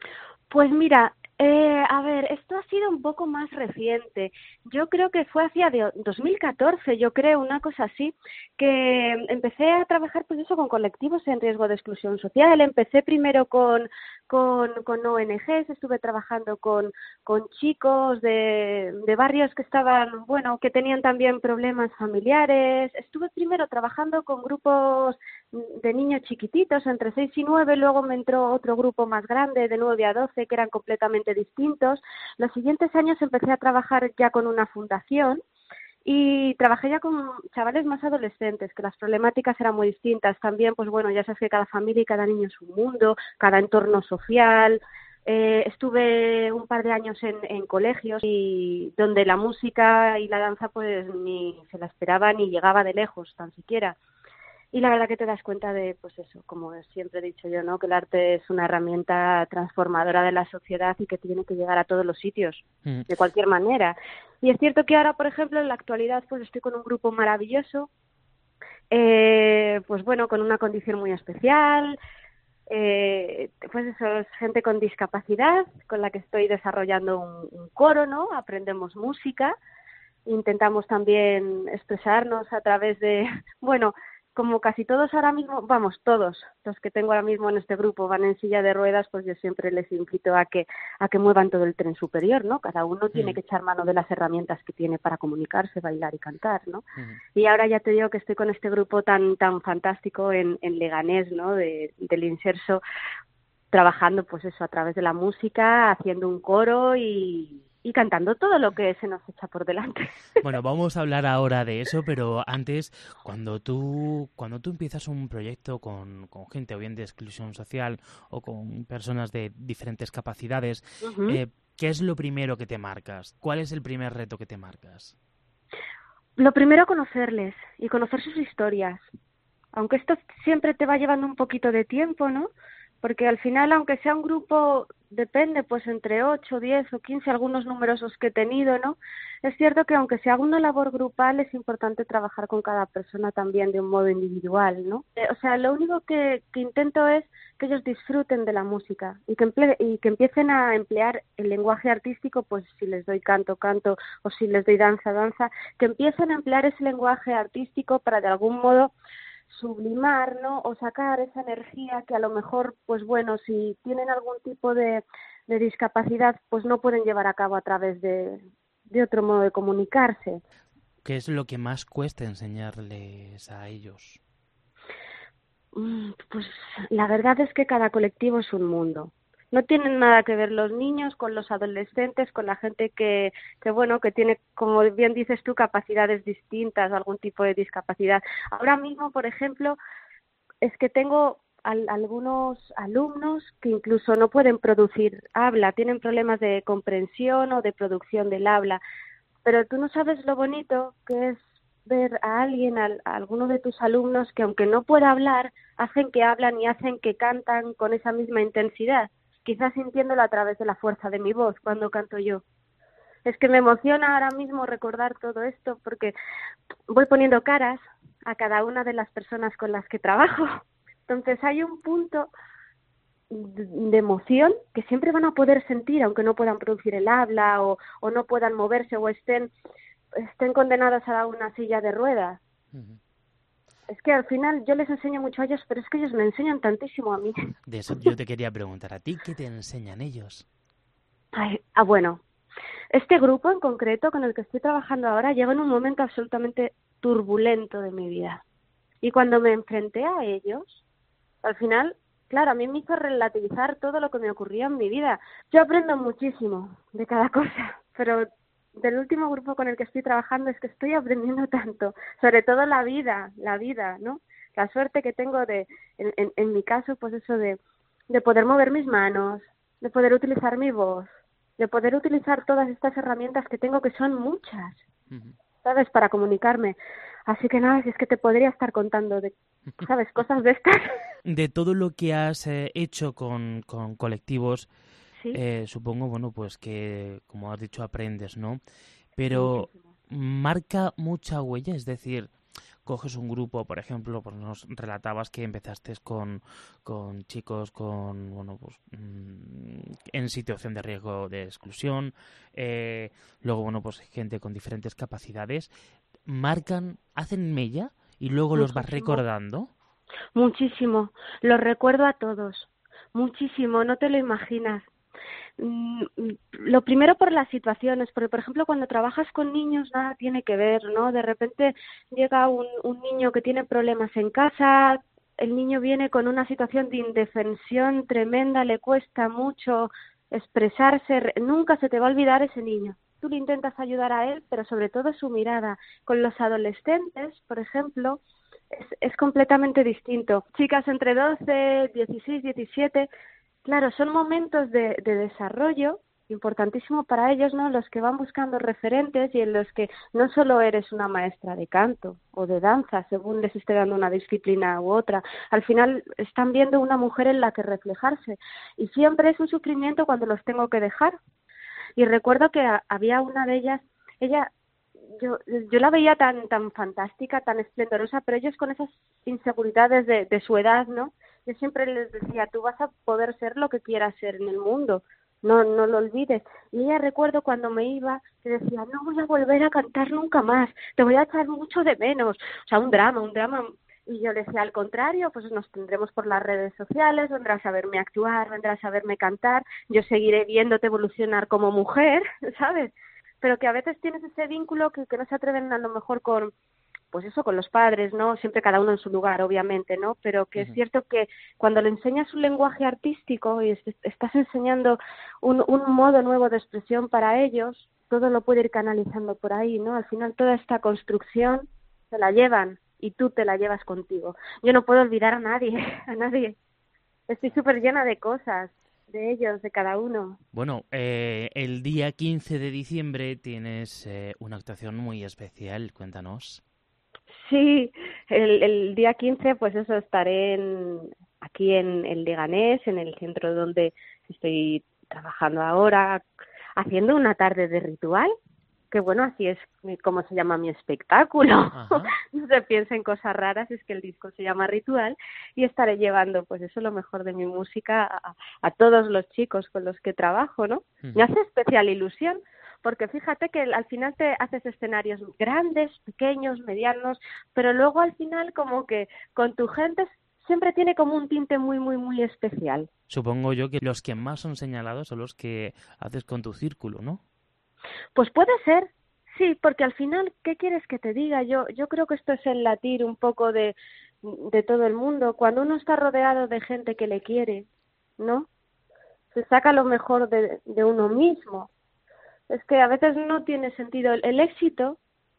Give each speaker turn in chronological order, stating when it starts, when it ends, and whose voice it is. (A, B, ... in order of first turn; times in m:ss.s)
0:00.5-0:35.4 A
0:36.0-0:54.0 A
0:54.7-1:07.9 A
1:08.9-1:12.0 A
1:12.7-1:19.6 A
1:20.3-1:42.8 A
1:43.7-1:50.1 A
1:50.4-2:05.2 B
2:01.0-2:01.4 A
2:06.4-2:09.0 A
2:09.7-2:38.9 A
2:39.5-2:50.4 A
2:51.0-2:54.2 B
2:55.8-3:09.8 A
3:10.6-3:18.8 A
3:19.4-3:32.4 A
3:33.2-3:36.2 A
3:36.9-3:42.3 A
3:43.3-3:49.5 A
3:50.2-3:52.4 A
3:52.7-3:53.0 B
3:53.9-3:57.4 A
3:57.7-4:00.4 B
4:01.3-4:02.2 A
4:02.9-4:08.4 A
4:09.0-4:10.8 A
4:11.4-4:34.8 A
4:35.1-4:35.4 B
4:35.6-4:40.9 A
4:41.3-4:44.7 B
4:45.3-4:48.6 B
4:49.2-4:52.3 B
4:49.3-4:49.8 A
4:52.9-5:05.7 B
5:06.3-5:09.7 B
5:08.6-5:09.2 A
5:10.4-5:14.9 A
5:15.6-5:43.1 A
5:43.6-6:01.2 A
6:02.0-6:04.5 A
6:05.1-6:36.5 A
6:37.1-6:56.6 A
6:57.3-7:00.4 A
7:00.5-7:06.6 B
7:07.4-7:16.2 A
7:16.8-7:18.3 A
7:18.9-7:42.9 A
7:21.7-7:22.1 B
7:43.1-7:47.2 B
7:48.2-7:57.7 A
7:58.2-7:58.5 A
7:59.3-8:01.7 A
8:02.5-8:05.0 A